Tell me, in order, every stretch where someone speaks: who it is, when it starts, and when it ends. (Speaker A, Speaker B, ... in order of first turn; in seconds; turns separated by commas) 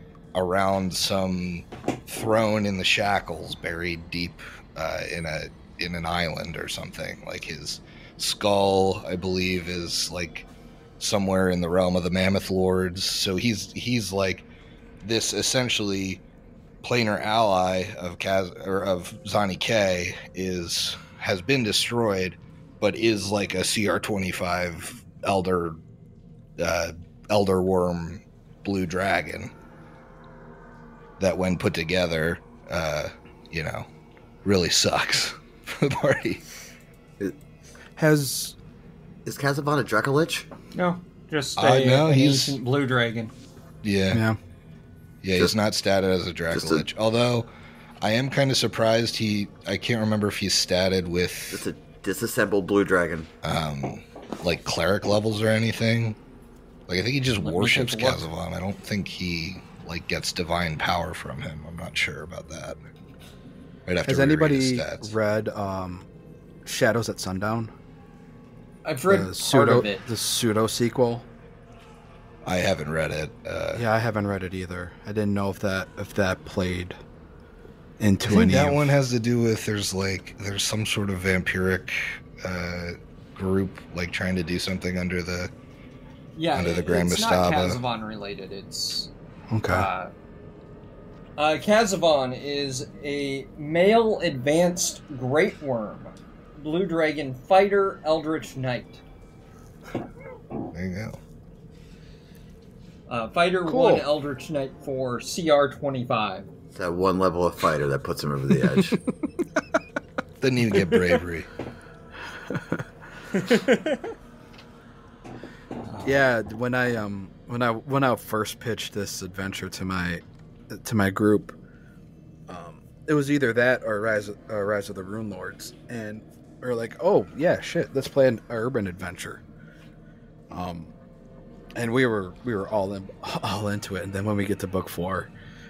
Speaker A: 0.3-10.5, Speaker A: 11.0-14.5, Speaker A: 15.0-16.2, Speaker A: 16.8-25.8, Speaker A: 26.6-29.5, Speaker A: 31.2-33.9, Speaker A: 34.4-36.4, Speaker B: 38.0-38.5, Speaker C: 39.2-40.5, Speaker D: 40.7-43.3, Speaker A: 41.6-42.6, Speaker A: 43.8-44.2, Speaker B: 44.1-44.4, Speaker A: 45.2-47.5, Speaker C: 46.5-46.8, Speaker A: 48.0-51.6, Speaker C: 51.5-53.3, Speaker A: 53.4-56.2, Speaker A: 56.9-62.8, Speaker D: 57.4-58.2, Speaker A: 63.9-65.1, Speaker B: 64.0-66.1, Speaker B: 66.6-67.7, Speaker D: 68.8-70.0, Speaker B: 69.1-71.3, Speaker A: 72.4-73.8, Speaker B: 73.7-77.0, Speaker B: 78.0-78.8, Speaker A: 78.3-85.5, Speaker D: 86.3-89.1, Speaker A: 86.5-87.8, Speaker B: 89.5-89.9, Speaker D: 89.7-90.1, Speaker D: 91.4-99.0, Speaker A: 100.7-101.2, Speaker D: 103.1-106.5, Speaker B: 103.7-104.0, Speaker C: 106.7-109.0, Speaker A: 110.4-111.5, Speaker B: 112.5-112.8, Speaker D: 113.3-114.1, Speaker D: 115.9-116.2, Speaker B: 116.0-121.5, Speaker B: 122.5-129.4, Speaker B: 130.5-130.9, Speaker B: 131.8-135.3